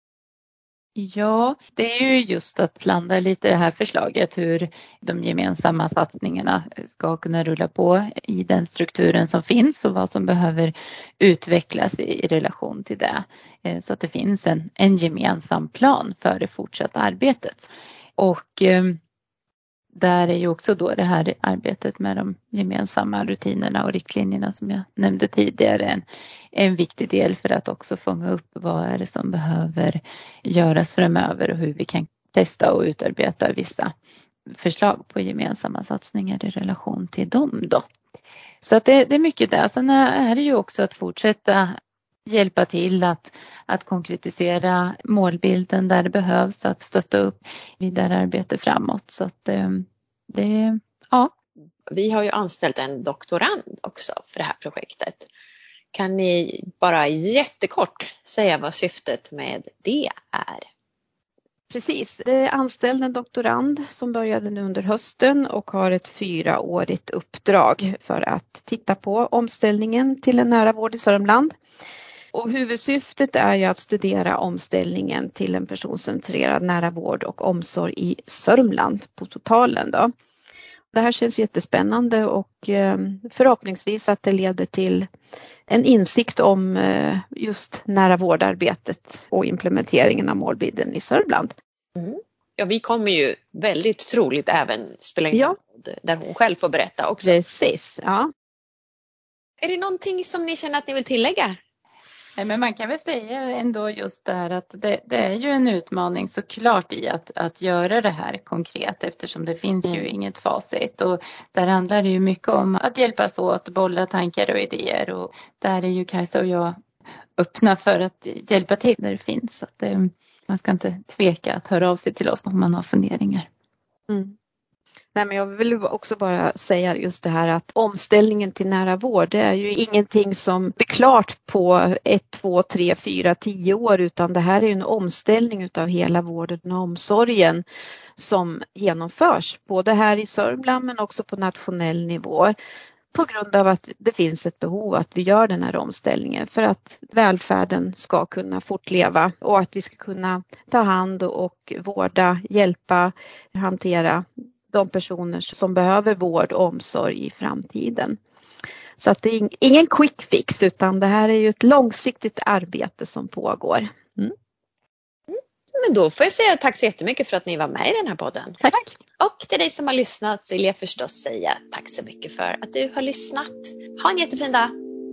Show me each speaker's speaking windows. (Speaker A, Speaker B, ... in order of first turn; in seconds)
Speaker A: 0.9-19.0, 19.9-33.9, 34.5-37.8, 38.6-41.7, 42.3-51.3, 102.4-116.8, 117.4-123.5
Speaker B: 51.9-55.3, 55.9-60.7, 92.0-97.4, 99.6-101.6, 165.3-168.6, 169.2-174.7
Speaker C: 61.7-71.5, 72.3-80.1, 80.9-85.1, 85.7-91.5, 97.2-98.3, 124.1-124.3, 125.1-137.6, 138.2-142.5, 143.1-158.2, 159.0-164.3, 168.6-168.9